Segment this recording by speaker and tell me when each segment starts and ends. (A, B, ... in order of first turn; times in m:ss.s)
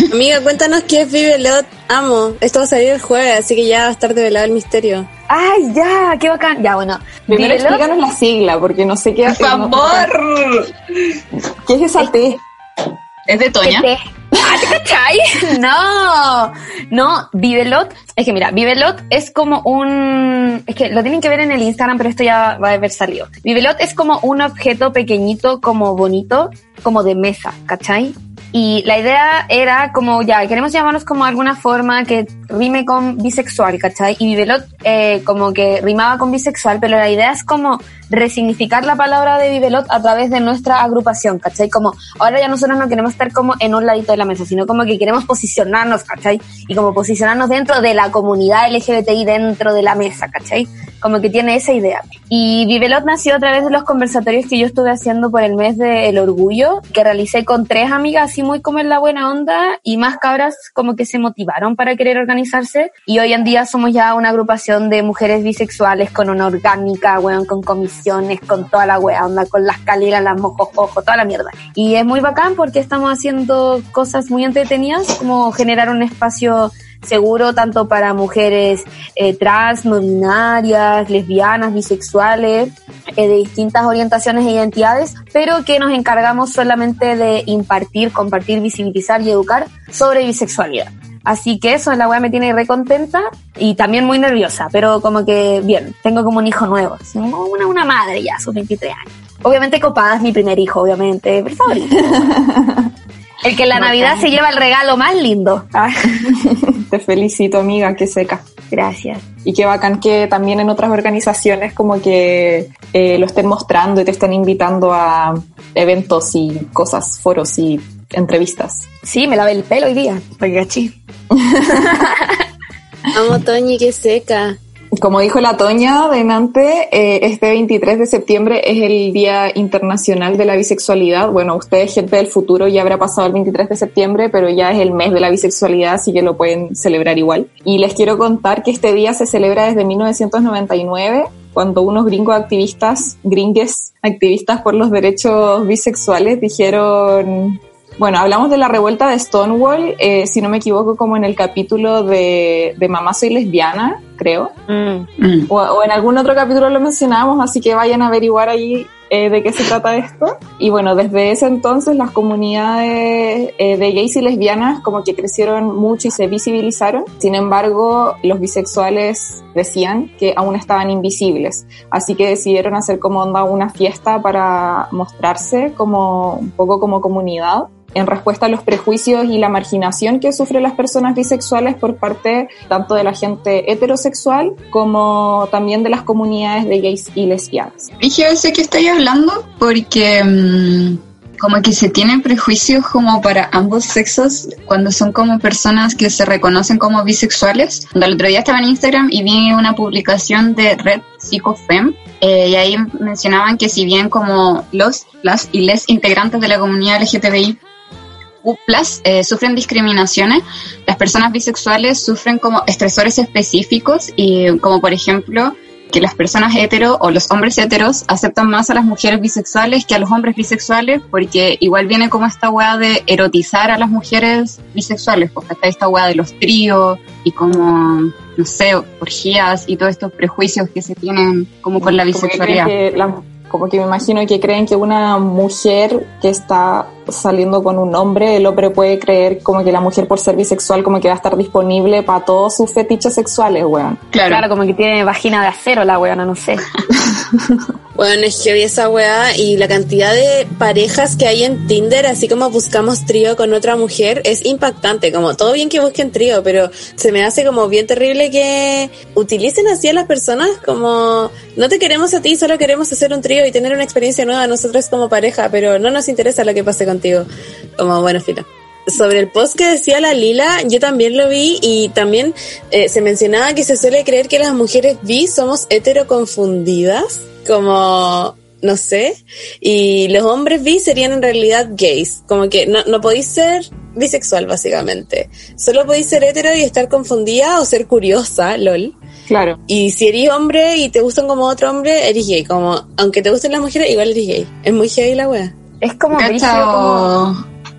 0:00.1-0:05.1 A
0:05.3-0:07.8 B
0:07.3-0:10.1 C
0:09.3-0:10.7 D
0:11.7-0:12.4 C
0:13.3-0:13.9 D
0:13.6-1:42.2 B
1:42.1-1:42.9 C
1:43.4-1:45.9 B
1:43.7-1:44.2 C
1:45.8-1:48.4 C
1:48.7-1:49.2 B
1:49.4-1:58.9 C
1:59.0-2:01.0 B
2:01.4-2:01.9 C
2:03.1-2:04.6 A
2:05.0-2:34.5 C
2:34.7-2:35.1 B
2:35.2-2:35.5 D
2:35.5-3:07.9 C
3:08.0-3:27.6 D
3:28.4-3:52.7 D
3:51.8-4:04.0 C
4:04.1-4:04.4 D
4:04.3-4:06.6 B
4:08.0-4:48.9 A
4:49.3-4:49.6 C
4:49.7-4:55.5 A
4:55.8-4:57.1 B
4:56.1-4:57.4 D